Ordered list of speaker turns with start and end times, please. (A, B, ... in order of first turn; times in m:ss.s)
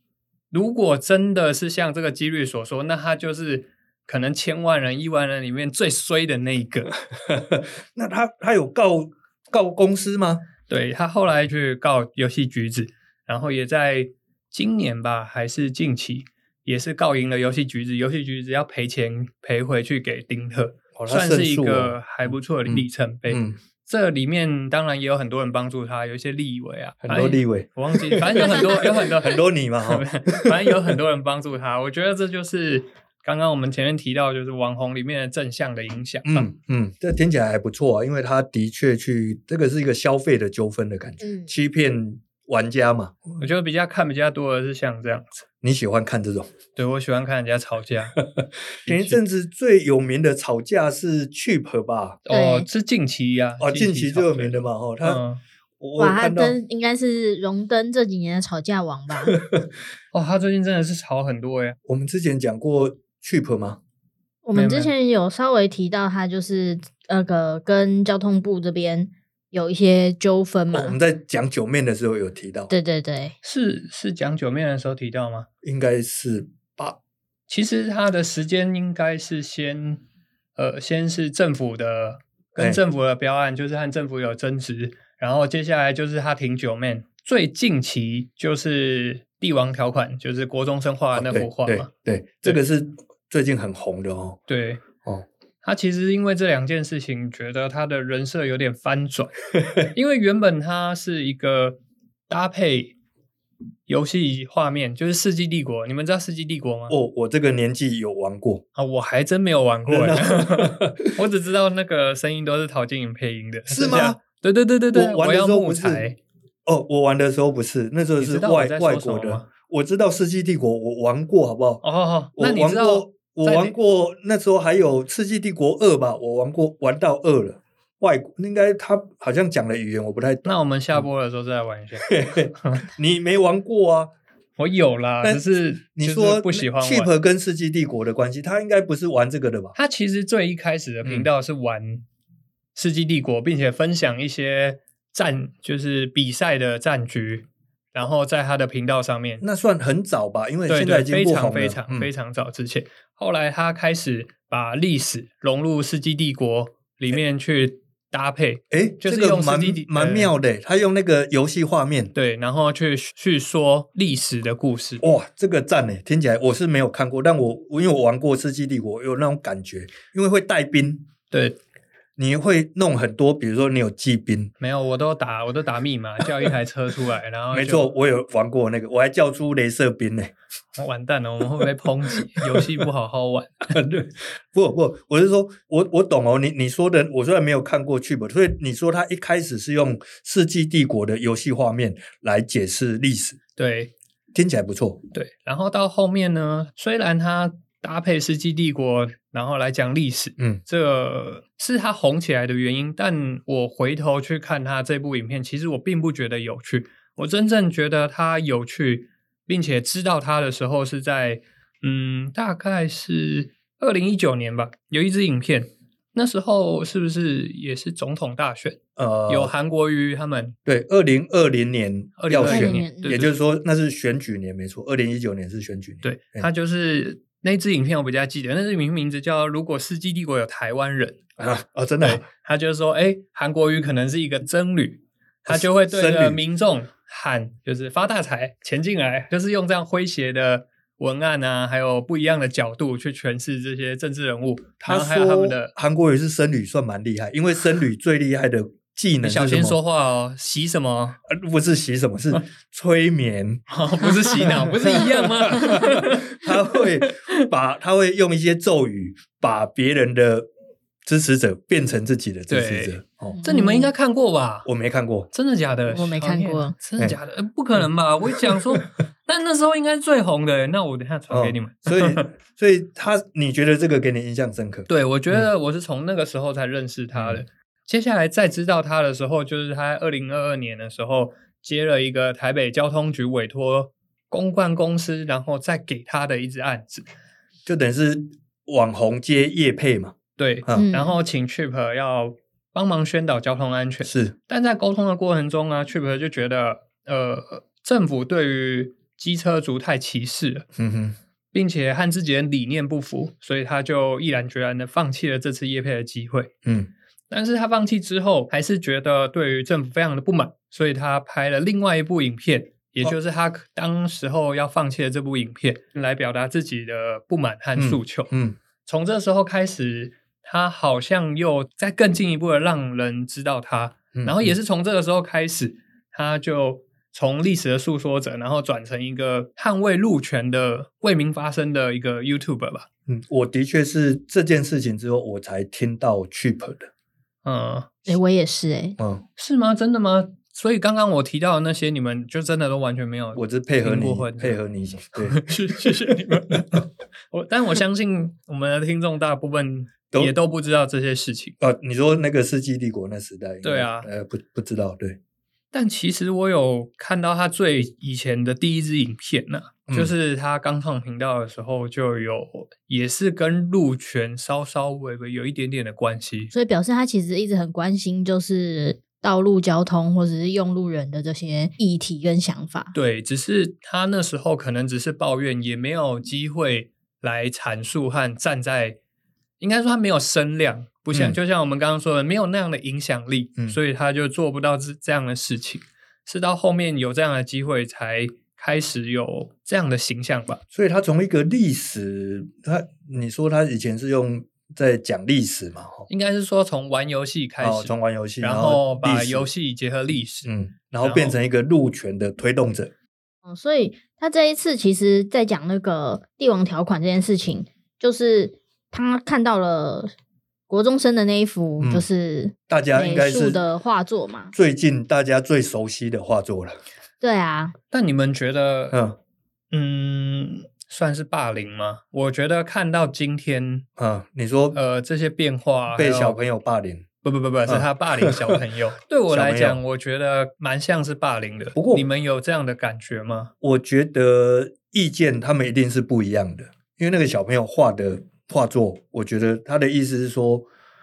0:00.5-0:06.9 A
0:07.1-0:10.4 B
0:10.7-0:36.5 A
0:20.9-0:22.0 B
0:22.6-0:23.6 B
0:27.0-0:31.0 B
0:36.2-0:43.2 B
0:41.2-0:41.5 C
0:43.4-0:45.4 A
0:45.6-0:46.5 B
0:46.8-0:48.2 A
0:48.2-0:52.2 B
0:48.8-0:49.2 A
0:52.3-0:55.4 A
0:52.3-0:52.7 C
0:53.6-0:55.2 B
0:55.8-0:56.6 B
0:56.0-0:59.4 C
0:59.2-0:59.7 B
1:00.1-1:01.8 A
1:01.9-1:03.8 B
1:04.4-1:11.0 C
1:04.5-1:04.9 A
1:10.7-1:12.7 B
1:12.7-1:13.4 C
1:13.4-1:15.5 A
1:15.6-1:17.0 B
1:17.5-1:20.0 A
1:20.6-1:31.9 A
1:31.1-1:34.4 B
1:34.5-1:34.8 A
1:35.6-1:41.8 A
1:39.6-1:39.8 B
1:42.3-1:42.9 A
1:43.9-1:47.0 A
1:46.9-1:48.6 B
1:48.8-1:56.2 A
1:49.9-1:51.2 B
1:53.7-1:54.2 B
1:54.9-1:56.0 B
1:56.6-2:01.8 B
1:58.2-1:59.5 A
2:01.8-2:03.8 A
2:02.4-2:11.0 B
2:10.4-2:12.9 A
2:12.0-2:14.1 B
2:14.6-2:17.1 A
2:15.2-2:19.7 B
2:19.7-2:22.0 A
2:21.0-2:21.3 B
2:22.7-2:29.4 A
2:29.4-2:32.1 B
2:30.7-2:40.3 A
2:38.7-2:42.1 B
2:42.1-2:45.0 A
2:45.0-2:51.0 B
2:51.3-2:51.6 A
2:52.2-2:54.5 B
2:54.6-2:57.9 A
2:57.5-3:00.3 B
3:00.8-3:03.8 A
3:02.4-3:02.8 B
3:03.7-3:13.4 B
3:13.6-3:13.9 A
3:14.3-3:15.0 B
3:15.1-3:40.6 A
3:39.0-3:39.5 B
3:40.6-3:46.5 B
3:42.2-3:43.3 A
3:42.4-3:43.2 C
3:46.0-3:51.2 A
3:51.4-3:52.2 B
3:52.0-4:05.7 A
3:55.5-3:56.4 B
4:04.8-4:09.8 B
4:09.2-4:11.2 A
4:11.3-4:20.5 B
4:13.7-4:17.4 A
4:21.0-4:23.4 B
4:22.5-4:24.7 A
4:23.4-4:23.9 C
4:24.6-4:25.3 B
4:25.3-4:32.3 A
4:25.9-4:26.8 C
4:27.8-4:28.9 B
4:31.3-4:35.5 B
4:34.9-4:47.1 A
4:37.1-4:37.4 B
4:47.6-4:50.9 B
4:50.4-5:00.6 A
4:50.7-4:51.2 C
4:54.0-4:54.3 B
5:00.8-5:01.2 B
5:01.5-5:06.5 A
5:06.6-5:06.9 B
5:07.3-5:18.3 A
5:17.8-5:18.6 B
5:18.8-5:32.9 A
5:24.1-5:24.6 B
5:33.1-5:36.9 B
5:37.4-5:37.9 A
5:38.1-5:39.0 C
5:39.0-5:39.2 B
5:39.4-5:44.6 A
5:43.3-5:46.1 B
5:45.2-5:51.6 A
5:51.6-5:55.2 B
5:53.6-5:54.1 A
5:55.7-6:06.5 A
5:59.9-6:00.1 B
6:06.5-6:12.9 C
6:12.9-6:19.0 A
6:19.6-6:30.6 A
6:21.1-6:21.4 B
6:30.7-6:36.1 B
6:36.1-6:40.5 A
6:37.6-6:39.5 B
6:40.4-6:42.9 B
6:41.0-6:41.4 A
6:43.4-6:50.1 C
6:50.7-6:54.5 C
6:51.8-6:52.0 B
6:52.7-6:53.6 B
6:54.5-6:56.8 B
6:57.2-6:57.7 C
6:57.9-6:59.0 A
6:58.9-6:59.2 B
6:59.7-7:03.8 A
7:04.0-7:04.8 B
7:04.7-7:06.4 A
7:05.9-7:07.0 B
7:07.2-7:13.5 A
7:07.7-7:08.6 B
7:09.3-7:09.8 B
7:11.7-7:12.1 B
7:13.6-7:20.6 B